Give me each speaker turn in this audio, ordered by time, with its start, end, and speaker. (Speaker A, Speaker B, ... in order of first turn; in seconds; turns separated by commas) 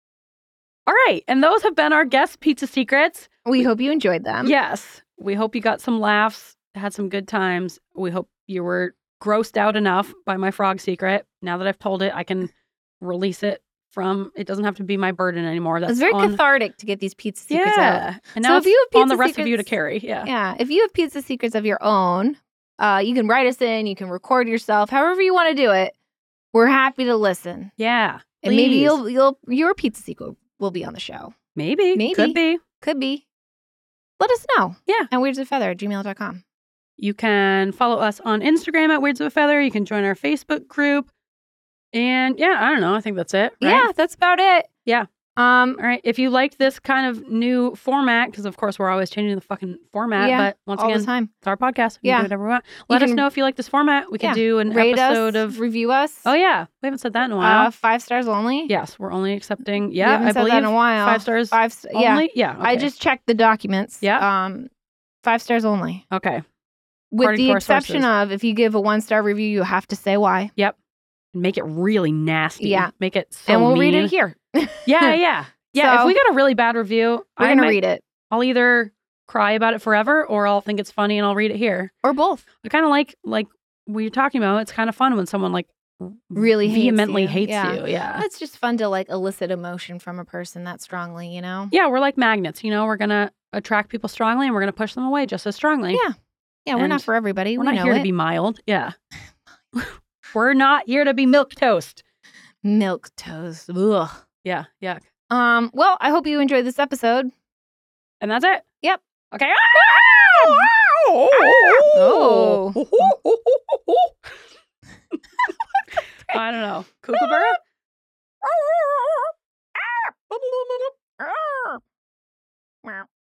Speaker A: 0.8-3.3, Speaker B: 3.4-4.5, Speaker A: 4.4-16.4, Speaker B: 15.8-19.7, Speaker A: 17.5-20.3, Speaker B: 20.2-25.9, Speaker B: 26.5-27.7, Speaker A: 27.8-29.0, Speaker B: 28.4-31.3, Speaker A: 31.6-32.6, Speaker B: 31.9-33.2, Speaker B: 34.2-36.4, Speaker A: 37.0-41.1, Speaker A: 41.9-43.9, Speaker B: 43.6-44.7, Speaker B: 45.4-45.8, Speaker A: 45.8-55.6, Speaker B: 50.2-51.3, Speaker B: 52.0-52.3, Speaker B: 52.9-53.2, Speaker B: 54.2-56.3, Speaker A: 56.2-57.7, Speaker B: 57.4-58.7, Speaker A: 58.7-62.9, Speaker B: 60.0-64.7, Speaker B: 65.2-66.0, Speaker A: 66.1-66.4, Speaker B: 67.1-70.5, Speaker A: 67.2-68.1, Speaker A: 71.3-74.1, Speaker B: 72.6-72.9, Speaker B: 73.5-75.2, Speaker A: 74.8-77.8, Speaker B: 75.8-76.2, Speaker B: 77.4-78.0, Speaker A: 78.3-81.9, Speaker B: 82.0-82.4, Speaker A: 82.6-88.2, Speaker B: 86.3-91.7, Speaker A: 91.7-96.0, Speaker B: 96.7-98.1, Speaker A: 96.8-98.9, Speaker A: 99.7-102.0, Speaker B: 102.6-104.2, Speaker A: 104.4-105.0, Speaker B: 105.3-107.3, Speaker A: 108.2-108.6, Speaker A: 109.3-114.1, Speaker B: 110.1-110.7, Speaker B: 111.3-113.1, Speaker A: 116.3-117.6, Speaker B: 118.4-121.8